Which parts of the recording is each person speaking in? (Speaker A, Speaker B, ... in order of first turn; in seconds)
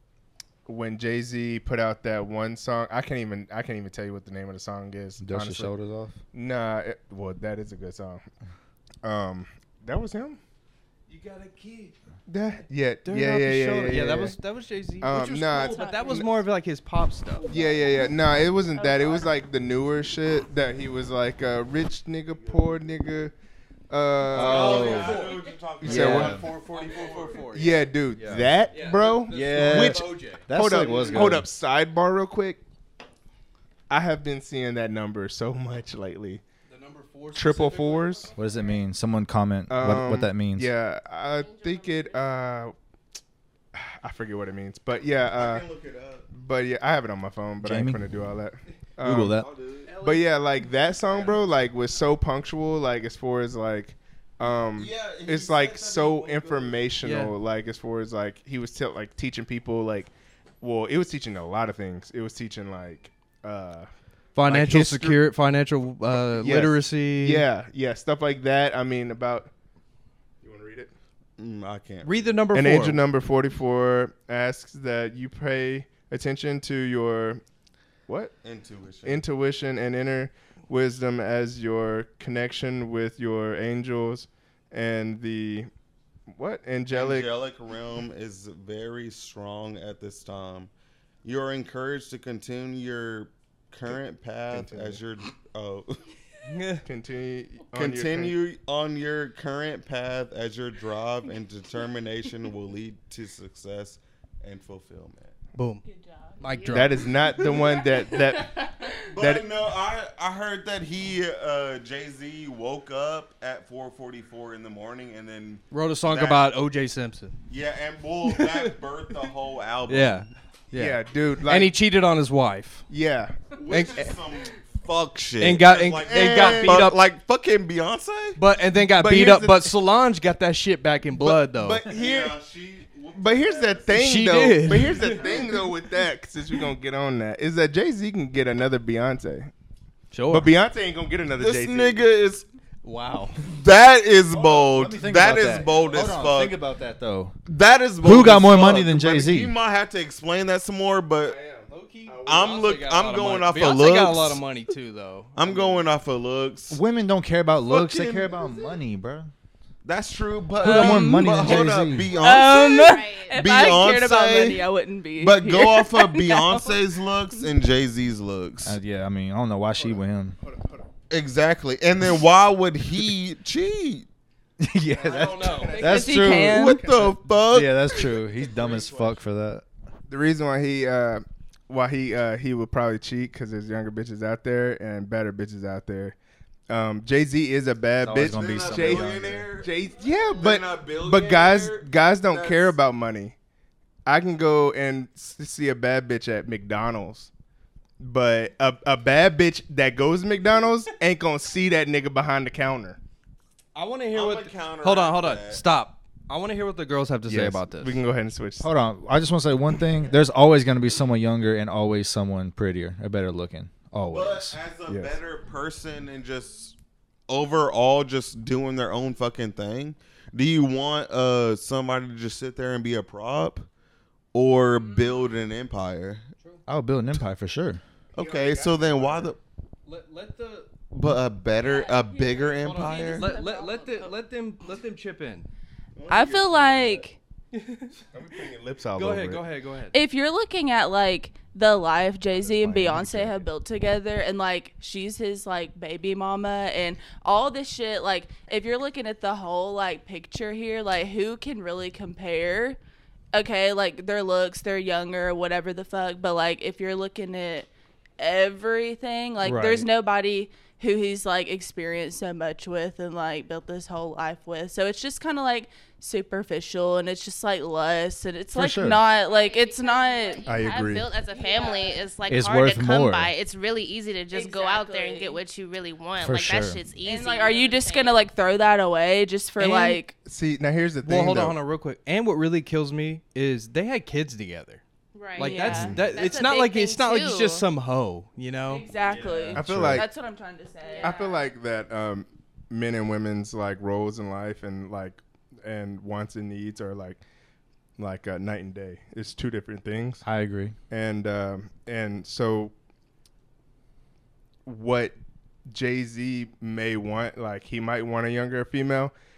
Speaker A: 0.7-5.7, 6.3-8.2, 9.0-10.4, 12.3-14.4, 15.0-16.3, 17.5-23.3, 23.9-26.5, 27.5-32.6, 33.9-36.4, 37.3-38.3, 39.7-42.7, 43.7-45.6, 46.3-49.4, 50.0-63.9, 64.5-65.2, 66.1-69.5, 70.4-70.9, 72.5-77.4, 78.1-78.3, 79.0-85.7, 86.3-87.3, 94.5-95.0, 96.8-98.3, 106.7-109.5, 120.7-121.7, 122.9-123.4, 126.1-126.9, 128.9-129.7, 131.1-132.3, 133.2-139.5, 140.3-142.0, 151.2-152.7, 169.7-170.8, 175.0-177.2, 180.1-186.1, 186.7-193.3, 194.1-197.3, 198.0-203.0, 207.3-208.7, 214.9-215.1, 228.2-229.3, 238.1-239.4, 242.3-243.4, 270.5-271.0, 279.6-281.6, 285.7-286.0, 289.5-290.1, 291.0-297.2, 298.0-300.2, 300.9-302.7, 304.6-305.2, 305.7-309.1
Speaker B: 5.2-6.2, 24.3-26.5, 28.1-28.5, 29.3-31.5, 38.4-40.7, 47.6-48.0, 49.0-49.5, 144.4-147.3, 148.0-149.5, 156.7-159.3, 160.6-162.1, 168.6-170.4, 174.6-176.8, 177.5-179.6, 188.0-189.4, 208.6-214.6, 226.7-227.8, 259.4-259.9, 268.5-269.0, 272.3-273.3, 276.2-276.8, 289.1-290.0, 300.2-300.7
Speaker C: 11.1-11.9, 13.0-17.5, 24.5-27.9, 28.7-30.5, 36.7-38.7, 49.9-50.4, 51.1-51.5, 57.0-57.3, 64.3-67.4, 72.0-73.0, 96.4-96.8, 105.5-105.8, 106.4-107.2, 115.7-117.3, 118.2-118.7, 119.9-122.8, 123.7-124.2, 125.4-127.0, 128.4-131.9, 133.9-135.5, 140.1-140.5, 142.8-143.4, 151.7-155.8, 175.0-175.8, 203.7-208.0, 229.8-230.7, 232.6-235.5, 237.5-238.0, 238.9-239.9, 281.0-284.8, 285.4-288.9
Speaker D: 15.5-16.2, 17.4-18.1, 18.7-19.2, 160.6-161.3, 162.1-167.4, 175.8-176.8, 236.1-237.2, 239.9-252.8, 253.3-272.1, 274.3-275.4, 277.0-280.1, 285.4-286.4, 288.7-291.4
Speaker E: 24.3-27.5, 45.3-46.2, 49.3-49.9, 54.8-56.9, 71.4-72.4, 78.4-79.2, 86.9-90.7, 91.2-96.0, 97.7-105.3, 109.0-116.4, 117.5-120.2, 123.5-128.4, 131.8-133.9, 134.9-135.5, 141.4-142.4, 143.5-146.6, 147.5-151.4, 152.2-154.4, 155.3-156.8, 157.7-158.7, 159.8-164.7, 165.2-168.8, 171.1-174.1, 176.3-177.9, 188.2-189.7, 190.3-192.8, 204.1-205.6, 214.1-216.8, 217.3-223.7, 224.3-226.2, 228.1-229.4, 230.9-233.3, 235.9-237.1
Speaker F: 41.3-42.3, 106.0-106.9, 162.8-163.5, 231.7-234.1, 269.1-278.2, 285.1-287.6, 290.8-291.3